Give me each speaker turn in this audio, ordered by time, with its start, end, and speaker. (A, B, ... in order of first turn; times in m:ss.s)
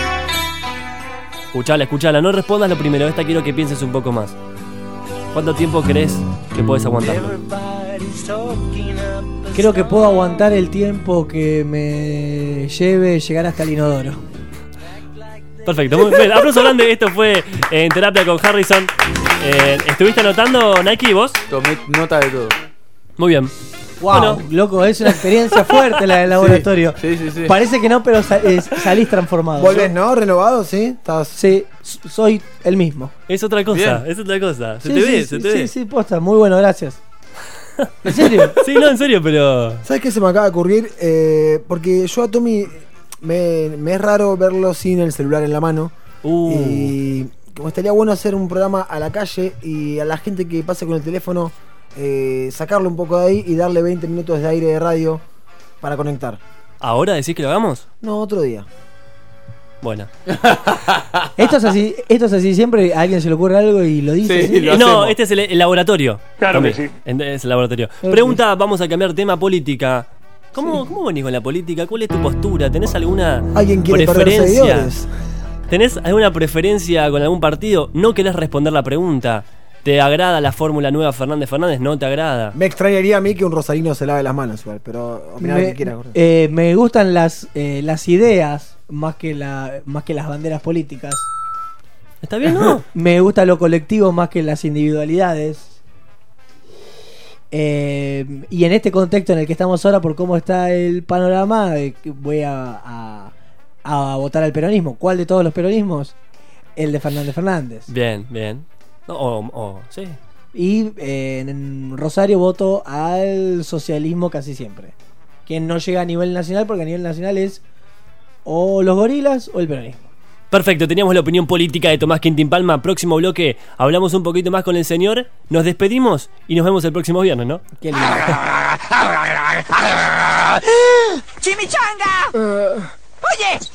0:01.5-0:04.4 A
0:05.3-0:07.5 A
0:07.6-0:09.1 B
0:09.5-0:14.2 C
0:15.6-0:21.4 A
0:21.5-0:22.6 B
0:23.2-0:23.5 A
0:24.0-0:29.9 C
0:24.1-0:24.4 A
0:26.3-0:27.5 B
0:29.6-0:31.4 D
0:31.3-0:33.1 C
0:33.3-0:35.7 A
0:33.7-0:34.0 B
0:34.8-0:37.0 C
0:38.0-0:38.6 C
0:38.6-0:39.8 A
0:39.8-0:45.9 D
0:46.2-0:47.0 A
0:46.4-0:55.2 D
0:55.8-0:56.4 D
0:56.8-0:57.8 A
0:58.0-0:58.7 D
0:59.8-1:00.1 A
1:00.3-1:01.2 B
1:01.4-1:04.8 C
1:04.2-1:05.2 B
1:04.7-1:14.9 A
1:08.0-1:08.4 C
1:13.5-1:15.1 D
1:15.7-1:22.6 A
1:22.5-1:26.2 D
1:25.4-1:31.3 C
1:32.2-1:32.8 A
1:32.6-1:35.7 C
1:37.5-1:43.3 C
1:43.8-1:46.1 C
1:46.8-1:47.9 C
1:47.9-1:50.2 A
1:50.5-1:54.9 C
1:55.4-1:57.6 C
1:58.4-2:00.0 C
2:00.5-2:07.6 A
2:07.8-2:08.4 C
2:08.4-2:12.4 E
2:13.2-2:13.6 E